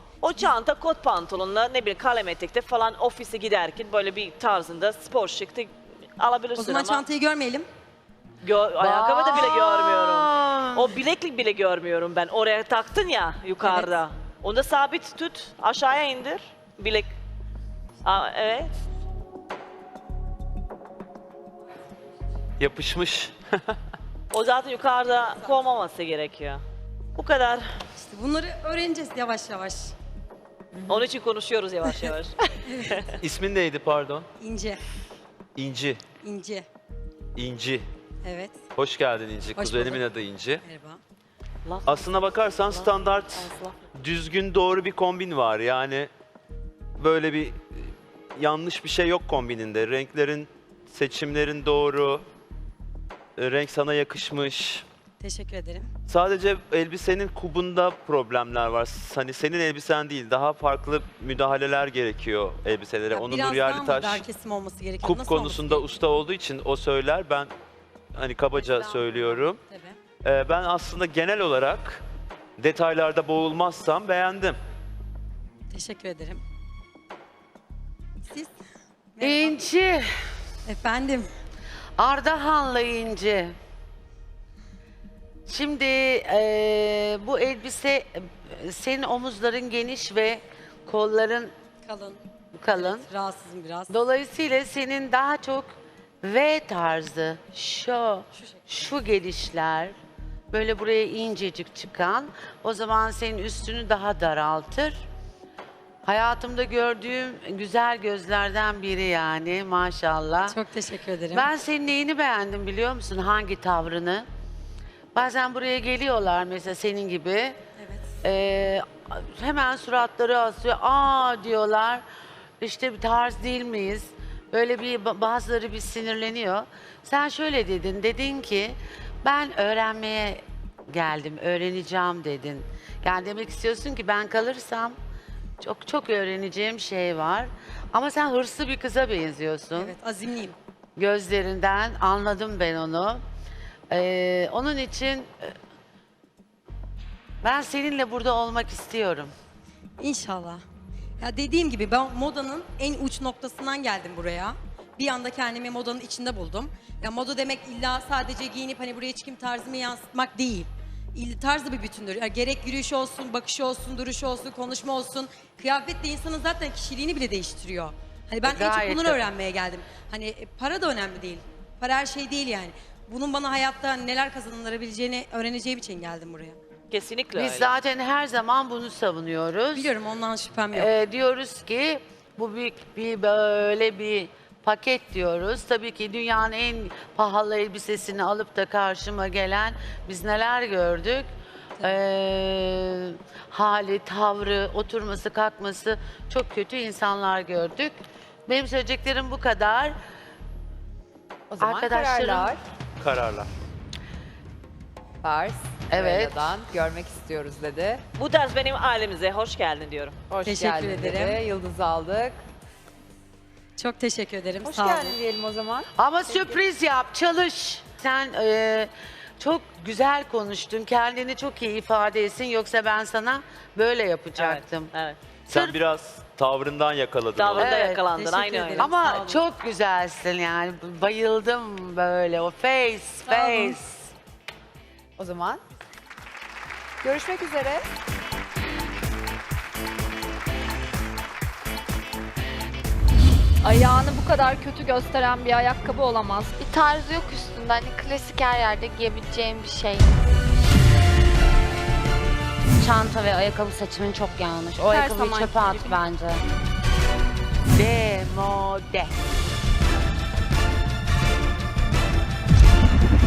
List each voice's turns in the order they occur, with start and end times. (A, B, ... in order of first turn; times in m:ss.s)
0:00.2-0:07.0 A
0:06.5-0:07.6 B
0:08.4-0:17.1 A
0:08.8-0:11.0 C
0:13.6-0:14.0 B
0:18.0-0:18.8 A
0:22.6-0:23.7 D
0:24.3-0:26.6 A
0:25.4-0:25.6 B
0:27.2-0:27.8 A
0:28.0-0:29.9 B
0:30.9-0:33.1 A
0:32.6-0:33.0 B
0:33.2-0:34.2 D
0:34.4-0:34.8 B
0:35.6-0:36.0 D
0:36.2-0:36.6 B
0:37.3-0:37.8 D
0:38.2-0:38.6 B
0:38.8-0:40.6 D
0:39.5-0:40.0 B
0:40.6-0:41.0 B
0:41.6-0:43.8 A
0:41.8-0:46.1 D
0:47.0-0:52.2 D
0:53.4-0:54.8 D
0:55.2-0:55.9 B
0:56.1-1:04.2 D
1:03.1-1:05.9 B
1:05.0-1:07.5 D
1:08.1-1:09.6 D
1:08.6-1:10.0 B
1:10.2-1:12.0 D
1:12.6-1:14.6 D
1:15.7-1:16.4 B
1:18.3-1:18.6 B
1:19.1-1:19.6 B
1:19.2-1:20.1 C
1:20.6-1:21.3 B
1:22.0-1:23.5 C
1:25.5-1:31.5 C
1:31.8-1:34.0 B
1:32.5-1:33.0 C
1:33.9-1:39.9 C
1:38.3-1:38.8 B
1:40.5-1:45.0 C
1:46.0-1:50.6 C
1:50.4-1:51.5 B
1:51.3-1:54.2 C
1:55.1-1:57.6 C
1:57.8-1:58.1 B
1:58.2-2:02.0 C
2:02.6-2:15.0 C
2:15.6-2:19.9 C
2:19.8-2:20.6 B
2:21.0-2:23.2 C
2:23.9-2:25.5 C
2:27.4-2:29.3 C
2:30.0-2:30.6 B
2:31.2-2:56.6 B
2:48.4-2:49.2 C
2:56.9-2:57.7 A
2:57.3-2:59.9 C
2:59.7-3:00.9 B
3:00.7-3:11.3 C
3:11.8-3:17.9 C
3:18.5-3:20.0 C
3:21.5-3:22.6 E
3:21.6-3:22.5 C
3:23.0-3:23.5 D
3:25.2-3:28.0 E
3:25.9-3:26.5 C
3:28.2-3:30.2 A
3:30.3-3:32.4 E
3:30.4-3:31.4 B
3:33.8-3:35.2 B
3:34.6-3:36.6 E
3:36.0-3:44.9 C
3:44.4-3:45.2 A
3:45.5-3:45.8 C
3:45.5-3:47.8 D
3:47.4-3:48.9 A
3:47.6-3:48.0 C
3:48.1-3:49.5 B
3:48.8-3:54.1 C
3:53.2-3:53.8 B
3:55.2-3:55.6 E
3:57.0-3:57.8 E
4:03.6-4:06.6 F
4:06.6-4:10.1 G
4:12.8-4:16.4 H
4:14.8-4:15.9 C
4:15.2-4:16.0 F
4:17.7-4:19.1 C